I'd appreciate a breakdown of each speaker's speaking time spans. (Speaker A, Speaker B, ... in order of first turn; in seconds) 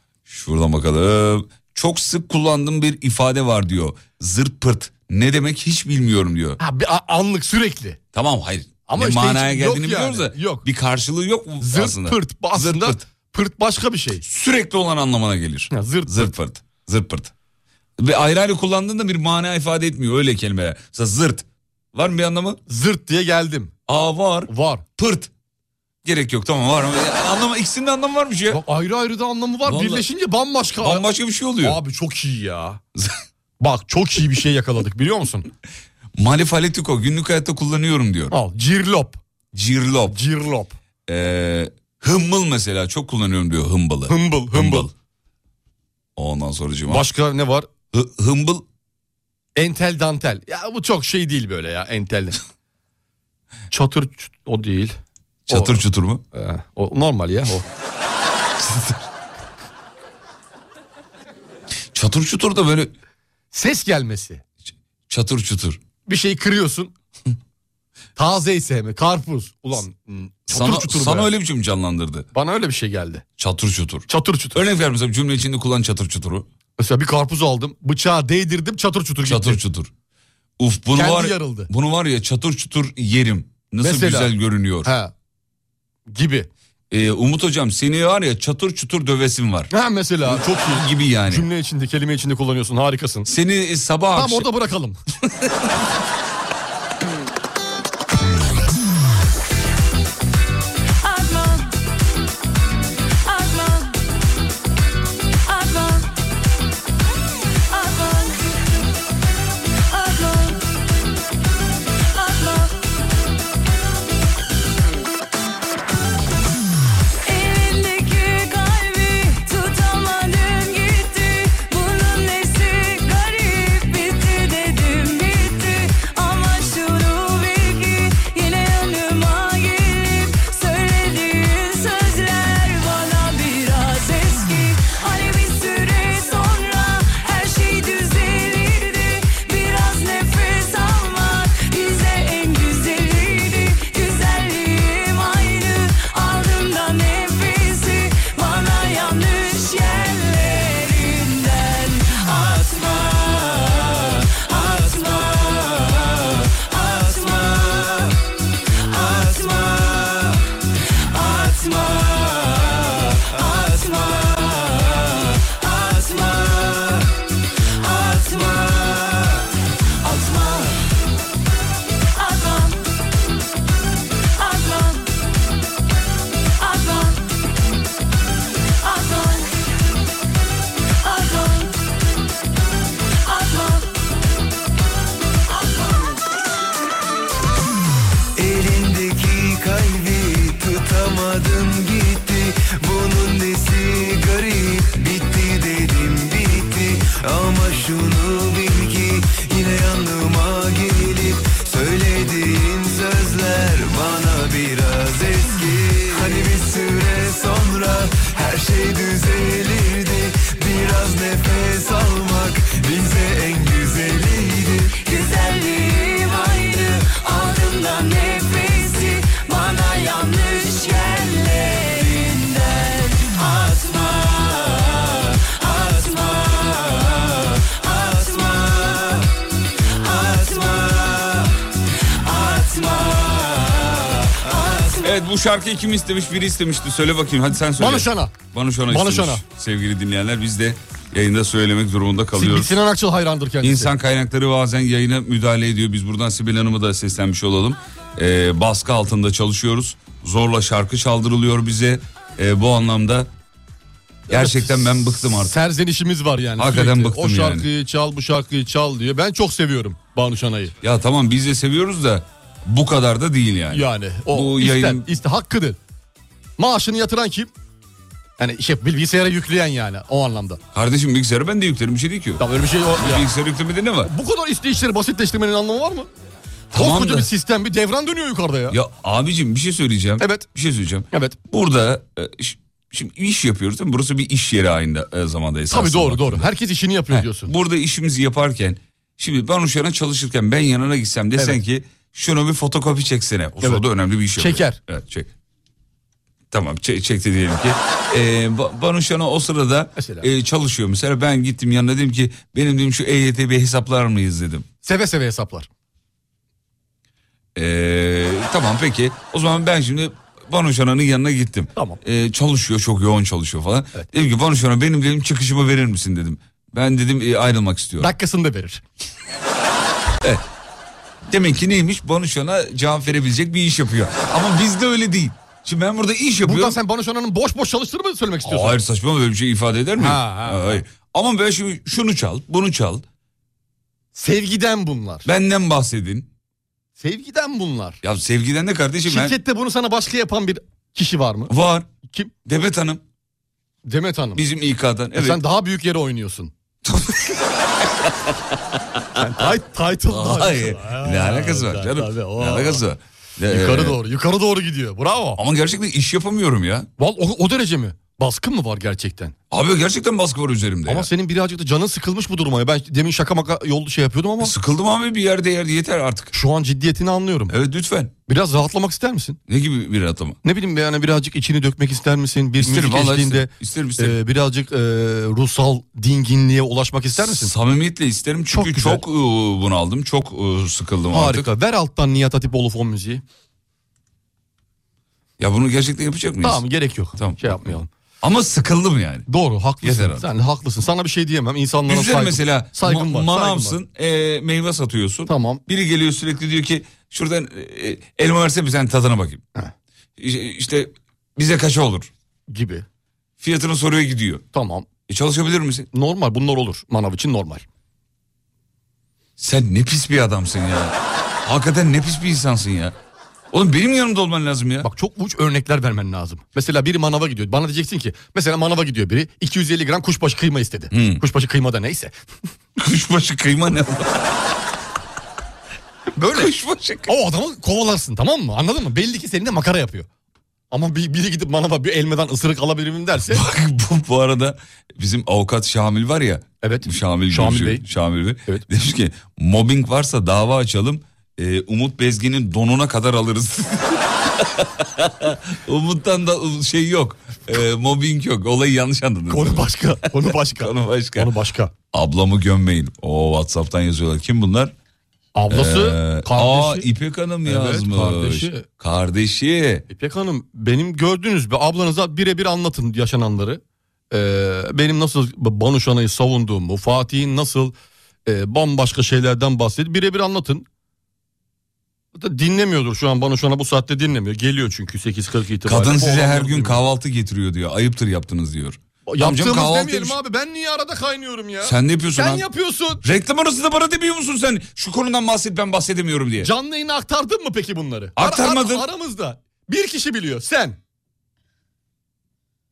Speaker A: 0.3-6.6, 8.1-13.0, 14.2-17.3, 18.0-22.6, 23.9-25.3, 26.0-28.6, 29.6-30.0, 30.8-31.8, 36.2-38.3, 39.5-40.2, 41.1-44.9, 46.2-47.1, 47.9-48.6, 55.5-56.2, 61.9-62.9, 65.1-65.8, 70.5-72.2, 73.4-76.5, 79.2-79.9, 80.6-84.9, 86.9-89.7, 90.2-91.5, 93.2-94.5, 235.0-242.7, 243.6-253.3, 254.3-255.6, 256.6-257.6, 260.8-265.1, 270.7-272.4, 273.0-274.1, 276.7-277.3, 278.7-286.4, 287.1-295.3, 296.5-304.6, 307.6-318.1, 321.3-326.8, 328.4-333.0, 335.2-336.3, 338.0-339.3, 341.5-341.9, 342.4-343.0, 344.3-345.4, 346.8-347.4, 350.1-354.0, 355.4-356.9, 359.5-361.1, 364.4-366.3, 367.5-368.1, 369.5-370.4, 372.6-374.2, 377.2-381.5, 385.4-386.6, 387.2-389.3, 389.8-390.2, 391.9-399.4, 400.2-402.1, 403.4-404.4, 405.1-405.9, 409.4-412.9, 413.5-414.9, 420.9-421.2, 422.8-424.4, 426.3-427.1, 433.3-451.3, 451.9-454.7, 455.5-459.8, 475.6-480.1, 481.6-482.4, 483.0-486.5, 488.1-488.8
Speaker B: 6.6-8.0, 8.9-10.7, 11.6-14.2, 15.7-16.3, 22.7-23.7, 24.5-24.8, 28.5-31.0, 31.6-32.8, 33.6-35.5, 38.3-39.2, 40.1-40.8, 44.1-44.9, 46.9-47.7, 49.5-52.4, 53.7-55.0, 55.5-55.8, 56.3-57.6, 63.5-64.4, 66.0-66.9, 68.2-71.3, 72.3-73.2, 74.1-74.6, 76.8-79.6, 80.9-81.7, 83.8-84.3, 84.8-85.1, 86.1-86.5, 89.7-93.3, 94.1-95.0, 237.8-239.4, 242.3-243.9, 254.3-260.7, 263.7-265.8, 266.6-267.5, 268.4-270.6, 272.4-273.3, 274.0-276.1, 276.7-278.8, 280.2-280.5, 281.1-281.4, 285.7-287.5, 294.4-294.8, 299.9-300.3, 304.8-305.7, 318.0-318.8, 326.4-328.8, 330.0-330.8, 334.1-335.2, 337.0-338.0, 339.1-341.5, 342.0-342.3, 343.9-344.4, 345.1-346.5, 349.2-352.8, 353.5-355.4, 357.0-359.3, 360.9-364.5, 366.3-367.5, 368.3-369.4, 370.4-377.5, 378.5-379.0, 381.1-383.2, 386.4-387.9, 389.3-393.8, 395.3-395.6, 402.5-402.9, 404.5-404.9, 405.9-407.6, 414.8-422.1, 426.1-426.5, 427.1-430.1, 430.7-433.4, 436.6-437.8, 449.3-451.7, 455.3-456.9, 457.4-458.6, 459.9-467.7, 468.2-470.6, 472.1-476.8, 479.1-483.0, 486.4-490.8
Speaker C: 117.3-117.5, 118.4-136.7, 137.2-138.8, 139.4-144.2, 146.3-152.2, 218.4-219.5
Speaker D: 159.4-160.1, 163.5-164.0, 166.5-166.8, 188.3-215.1, 228.1-228.5, 230.4-231.1, 232.7-233.1, 234.4-235.0